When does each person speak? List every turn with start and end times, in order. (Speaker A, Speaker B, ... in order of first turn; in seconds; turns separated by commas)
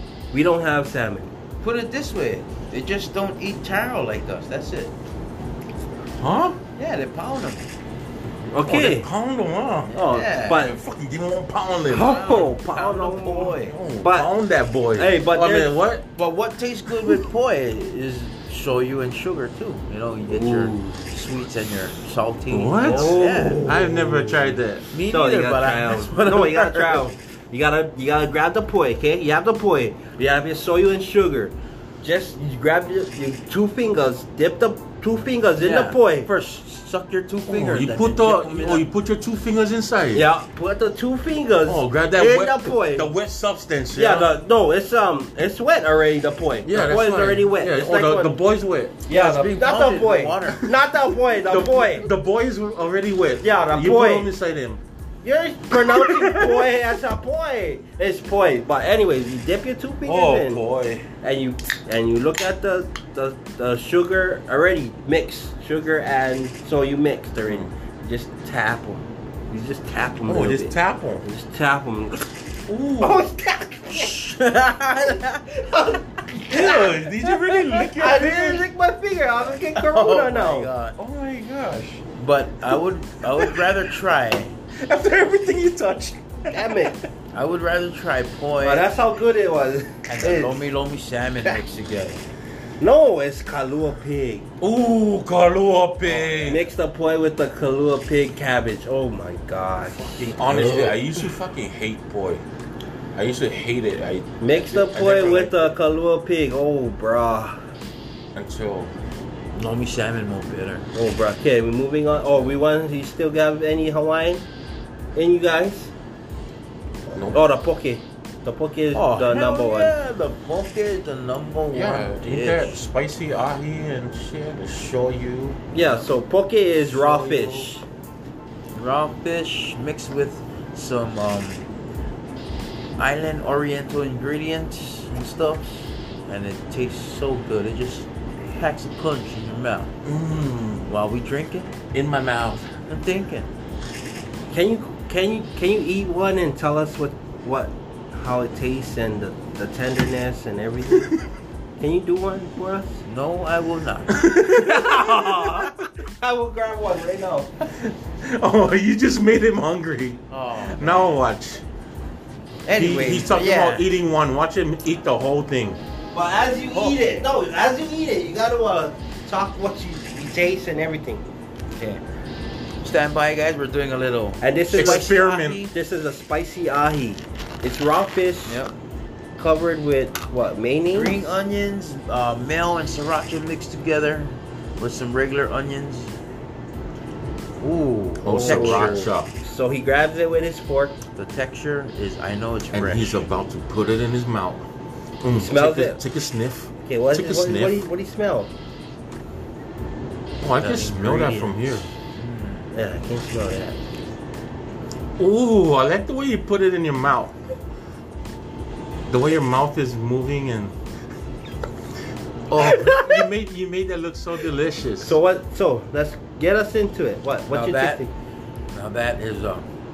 Speaker A: 0.3-1.3, Speaker B: 1.6-4.9, Speaker C: 6.2-6.6, Speaker B: 6.8-7.7, Speaker A: 8.5-9.1, Speaker C: 8.7-12.2, Speaker B: 9.9-10.7, Speaker A: 10.0-10.7, Speaker A: 11.9-14.3, Speaker B: 12.0-13.8, Speaker C: 13.6-16.1, Speaker A: 15.0-15.7, Speaker B: 16.2-23.8, Speaker A: 20.3-21.1, Speaker C: 22.5-24.9, Speaker A: 22.8-24.4, Speaker B: 24.9-27.1, Speaker A: 25.1-36.3, Speaker B: 35.6-38.9, Speaker C: 37.5-40.3, Speaker A: 40.1-43.1, Speaker C: 41.7-44.3, Speaker A: 44.0-48.4, Speaker C: 46.6-49.0, Speaker A: 49.1-52.1, Speaker B: 49.1-50.6, Speaker C: 51.5-54.8, Speaker A: 53.4-54.3, Speaker A: 55.2-60.6, Speaker C: 55.7-56.7, Speaker C: 60.0-61.0, Speaker A: 61.2-72.3, Speaker C: 70.3-71.2, Speaker C: 72.7-73.3, Speaker A: 73.0-74.3, Speaker B: 73.9-75.5, Speaker A: 75.5-80.7, Speaker C: 76.5-78.7, Speaker B: 79.7-81.0, Speaker C: 81.0-82.0, Speaker B: 82.2-84.5, Speaker C: 83.3-83.6, Speaker C: 84.8-87.1, Speaker A: 86.5-87.0, Speaker B: 87.3-88.9, Speaker A: 88.6-90.6, Speaker B: 90.1-92.2, Speaker A: 92.8-94.5, Speaker C: 94.6-96.7, Speaker B: 96.0-96.5, Speaker A: 96.4-100.6, Speaker C: 99.9-102.4, Speaker B: 100.3-101.0, Speaker C: 103.2-105.8, Speaker A: 104.4-107.6, Speaker C: 108.3-108.9, Speaker B: 109.5-110.9, Speaker A: 111.0-114.5, Speaker A: 115.2-115.9, Speaker C: 117.1-117.4, Speaker A: 117.3-119.9, Speaker B: 118.9-122.8, Speaker C: 121.7-126.1, Speaker A: 125.7-127.8, Speaker C: 126.8-127.7, Speaker B: 128.7-131.6, Speaker B: 133.0-139.9, Speaker C: 140.1-140.9, Speaker B: 140.8-141.7, Speaker C: 141.9-142.8, Speaker B: 142.9-143.5, Speaker A: 144.5-151.1, Speaker A: 151.8-153.0, Speaker B: 153.1-154.2, Speaker C: 154.1-155.8, Speaker A: 154.5-157.5, Speaker C: 157.6-161.6, Speaker B: 160.3-161.2, Speaker B: 162.7-163.9, Speaker C: 162.8-165.8, Speaker A: 166.1-171.2, Speaker B: 166.7-167.2, Speaker B: 171.8-172.0, Speaker B: 172.8-175.7, Speaker A: 174.4-175.2, Speaker C: 174.7-175.6, Speaker A: 175.7-178.6, Speaker B: 178.5-178.7, Speaker A: 179.4-181.2, Speaker B: 180.9-186.2, Speaker B: 187.6-189.1, Speaker C: 188.2-189.3, Speaker A: 188.2-191.0, Speaker B: 191.2-193.2, Speaker C: 192.7-194.7, Speaker C: 195.2-197.8, Speaker A: 195.3-196.0, Speaker A: 196.9-198.5, Speaker C: 200.4-201.9, Speaker B: 200.6-202.7, Speaker A: 202.7-203.8, Speaker C: 205.2-207.4, Speaker C: 209.1-210.8, Speaker C: 212.5-215.2, Speaker A: 212.6-213.3, Speaker A: 215.0-218.1, Speaker B: 217.5-218.0, Speaker B: 218.7-219.7